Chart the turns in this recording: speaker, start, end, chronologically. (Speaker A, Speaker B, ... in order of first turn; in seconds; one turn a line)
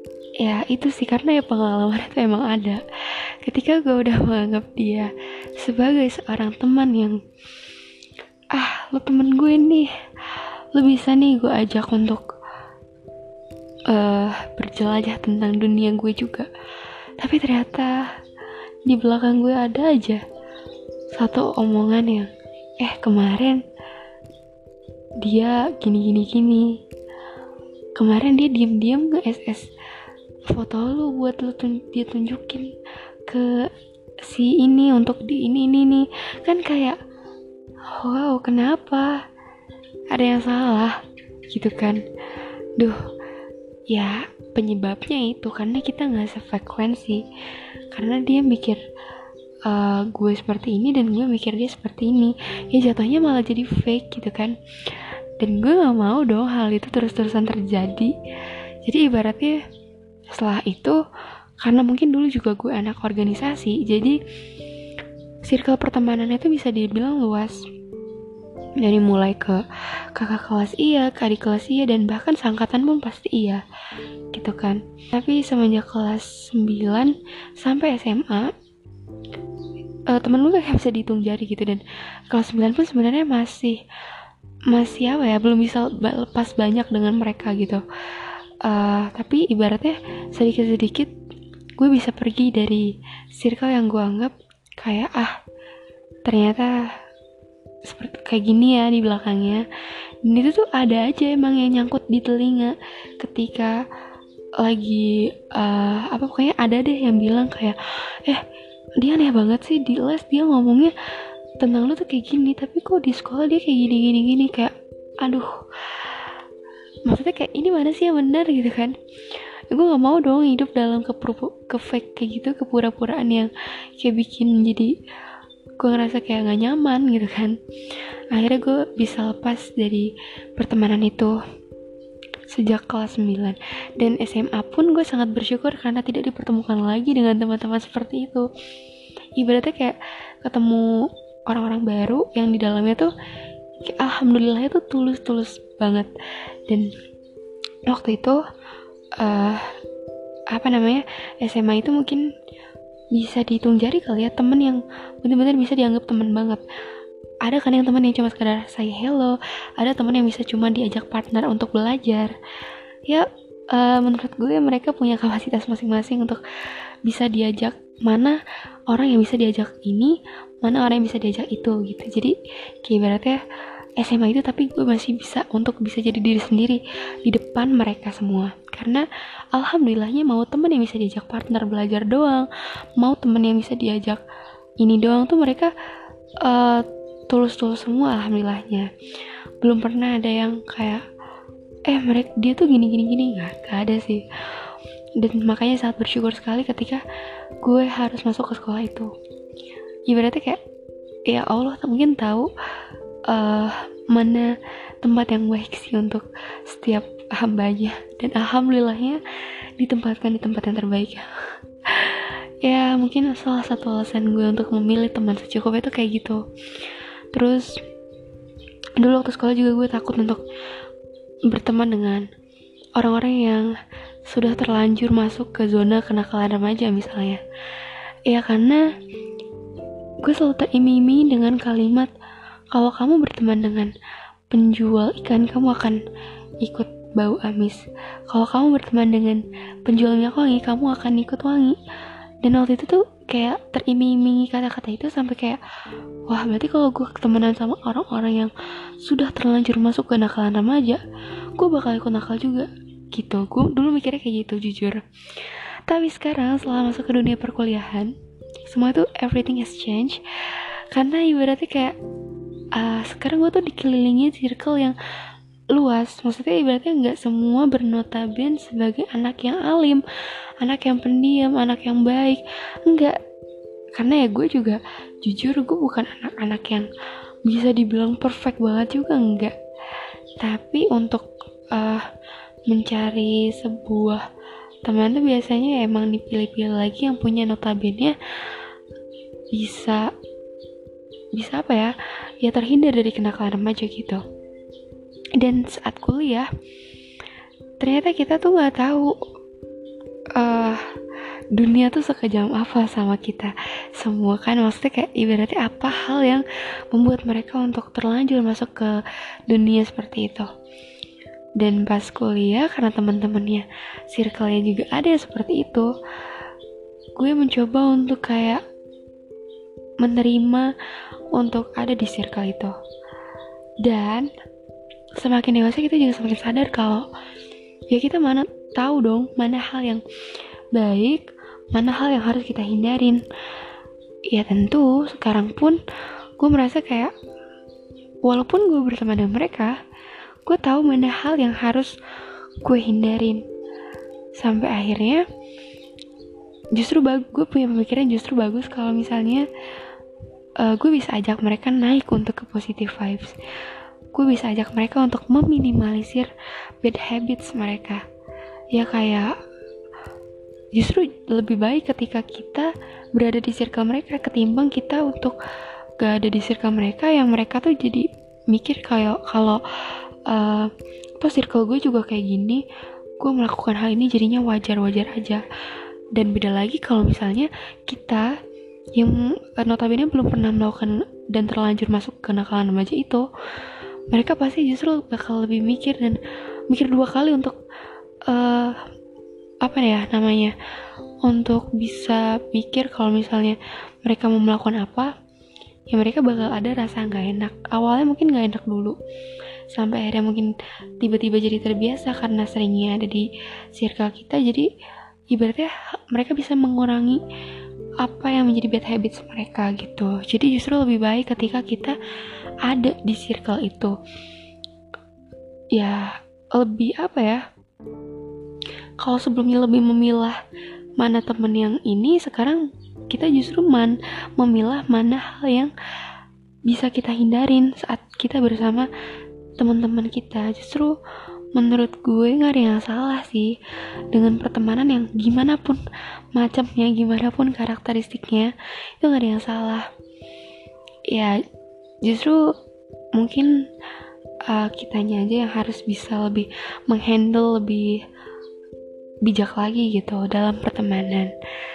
Speaker A: 0.4-7.2
Speaker A: 8.5-12.2
Speaker A: 13.9-16.5
Speaker A: 17.2-18.0
Speaker A: 18.9-20.2
Speaker A: 21.1-23.6
Speaker A: 25.2-26.8
Speaker A: 27.9-29.7
Speaker A: 30.5-32.7
Speaker A: 33.3-33.7
Speaker A: 34.2-37.0
Speaker A: 37.9-39.2
Speaker A: 40.1-42.0
Speaker A: 43.9-47.2
Speaker A: 47.9-48.8
Speaker A: 49.6-58.1
Speaker A: 58.8-59.6
Speaker A: 60.3-61.0
Speaker A: 61.6-64.2
Speaker A: 65.4-67.6
Speaker A: 68.8-73.6
Speaker A: 74.3-78.5
Speaker A: 80.1-83.8
Speaker A: 84.7-91.1
Speaker A: 91.8-95.3
Speaker A: 96.2-96.9
Speaker A: 97.8-99.7
Speaker A: 100.2-103.8
Speaker A: 104.6-108.4
Speaker A: 109.0-110.9
Speaker A: 111.6-116.4
Speaker A: 117.0-119.0
Speaker A: 119.7-124.9
Speaker A: 125.8-127.6
Speaker A: 128.3-131.4
Speaker A: 132.5-138.5
Speaker A: 139.3-143.1
Speaker A: 143.8-146.1
Speaker A: 147.9-148.4
Speaker A: 149.2-149.6
Speaker A: 150.5-152.2
Speaker A: 153.1-156.6
Speaker A: 157.4-162.3
Speaker A: 163.1-166.4
Speaker A: 167.0-173.4
Speaker A: 174.0-184.2
Speaker A: 184.8-185.7
Speaker A: 186.4-188.9
Speaker A: 189.6-191.0
Speaker A: 191.8-197.0
Speaker A: 197.6-199.1
Speaker A: 200.1-200.6
Speaker A: 201.3-202.5
Speaker A: 203.3-209.2
Speaker A: 209.8-211.3
Speaker A: 211.9-216.4
Speaker A: 217.3-217.8
Speaker A: 219.0-220.4
Speaker A: 221.5-222.3
Speaker A: 222.9-223.7
Speaker A: 224.2-228.8
Speaker A: 230.2-232.1
Speaker A: 232.7-233.9
Speaker A: 234.5-236.0
Speaker A: 236.6-241.8
Speaker A: 242.4-245.6
Speaker A: 246.3-251.0
Speaker A: 251.5-258.1
Speaker A: 258.6-261.9
Speaker A: 262.7-264.9
Speaker A: 265.7-270.0
Speaker A: 270.6-273.2
Speaker A: 273.9-276.9
Speaker A: 277.4-279.5
Speaker A: 280.4-282.1
Speaker A: 282.7-284.2
Speaker A: 284.8-288.6
Speaker A: 289.5-290.1
Speaker A: 291.3-294.2
Speaker A: 295.4-296.5
Speaker A: 297.8-299.2
Speaker A: 300.4-300.8
Speaker A: 301.5-310.5
Speaker A: 311.6-315.9
Speaker A: 317.2-318.6
Speaker A: 320.0-320.7
Speaker A: 321.3-322.7
Speaker A: 323.8-324.3
Speaker A: 325.2-327.1
Speaker A: 327.9-330.0
Speaker A: 330.7-333.2
Speaker A: 334.3-335.8
Speaker A: 336.4-337.1
Speaker A: 338.2-339.8
Speaker A: 340.4-341.9
Speaker A: 342.6-343.4
Speaker A: 344.3-345.2
Speaker A: 346.7-349.5
Speaker A: 350.6-353.4
Speaker A: 354.1-358.0
Speaker A: 358.7-359.4
Speaker A: 360.7-365.4
Speaker A: 366.0-372.6
Speaker A: 373.2-375.4
Speaker A: 376.1-378.4
Speaker A: 378.9-387.6
Speaker A: 388.3-388.8
Speaker A: 389.6-390.5
Speaker A: 391.2-395.1
Speaker A: 395.9-399.0
Speaker A: 399.7-404.7
Speaker A: 405.3-407.2
Speaker A: 408.0-411.9
Speaker A: 412.6-413.9
Speaker A: 415.7-417.4
Speaker A: 419.0-420.4
Speaker A: 421.0-425.7
Speaker A: 426.7-428.9
Speaker A: 429.6-431.0
Speaker A: 431.5-433.6
Speaker A: 434.1-435.8
Speaker A: 436.3-439.9
Speaker A: 441.1-441.4
Speaker A: 442.0-442.5
Speaker A: 443.1-443.5
Speaker A: 444.4-448.0
Speaker A: 449.2-451.3